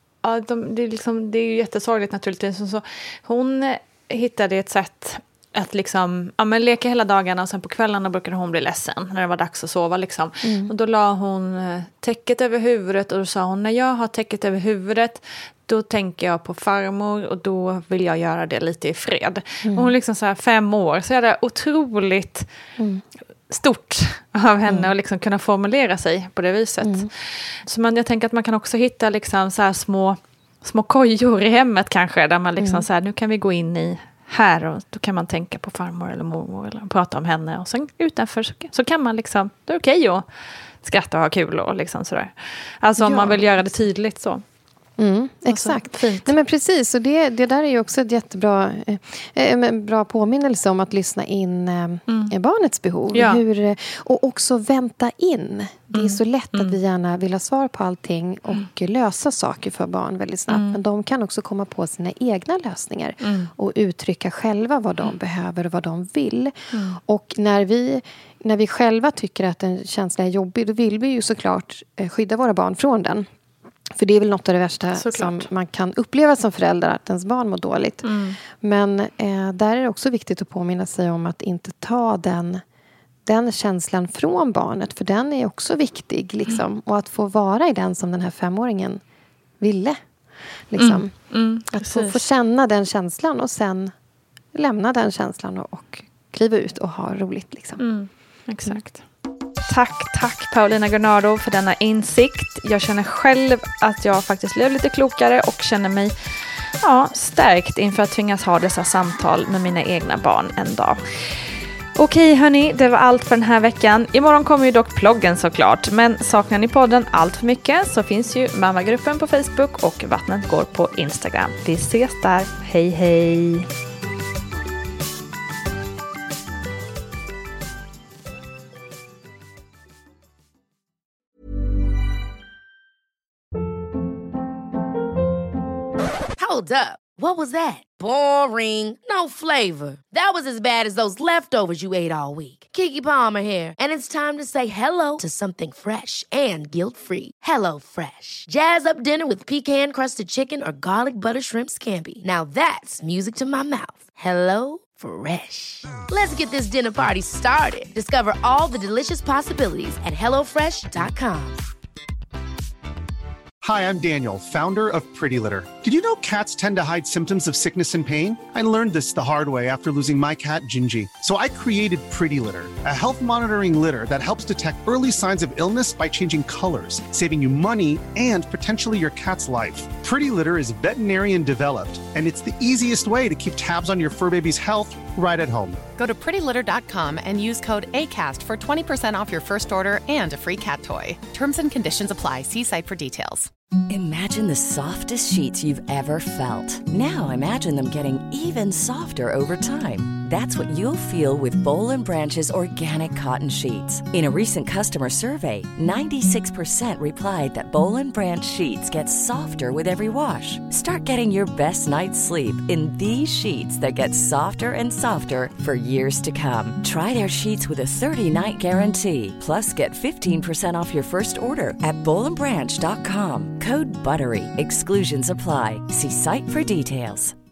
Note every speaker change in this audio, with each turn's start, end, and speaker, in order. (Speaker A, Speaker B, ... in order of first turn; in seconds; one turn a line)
Speaker A: 0.2-22.5
Speaker B: 10.4-10.7
Speaker B: 19.6-19.9
Speaker B: 22.8-23.0
Speaker A: 23.5-27.1
Speaker B: 26.8-27.1
Speaker A: 27.6-40.2
Speaker B: 32.6-32.8
Speaker A: 40.8-44.4
Speaker B: 43.0-43.4
Speaker B: 45.0-73.3
Speaker A: 45.5-46.3
Speaker A: 53.1-53.4
Speaker A: 55.9-56.8
Speaker A: 60.5-60.8
Speaker A: 63.2-63.5
Speaker A: 66.7-67.0
Speaker B: 73.9-82.6
Speaker A: 75.0-75.5
Speaker A: 78.0-78.4
Speaker B: 83.2-89.0
Speaker B: 89.6-90.0
Speaker B: 90.7-91.1
Speaker A: 90.8-92.2
Speaker B: 91.7-93.9
Speaker B: 94.5-97.8
Speaker A: 97.8-99.0
Speaker A: 99.7-106.1
Speaker A: 106.8-111.0
Speaker A: 112.0-123.7
Speaker C: 136.4-161.6
Speaker D: 163.6-185.8
Speaker E: 186.0-193.5
Speaker F: 193.9-227.3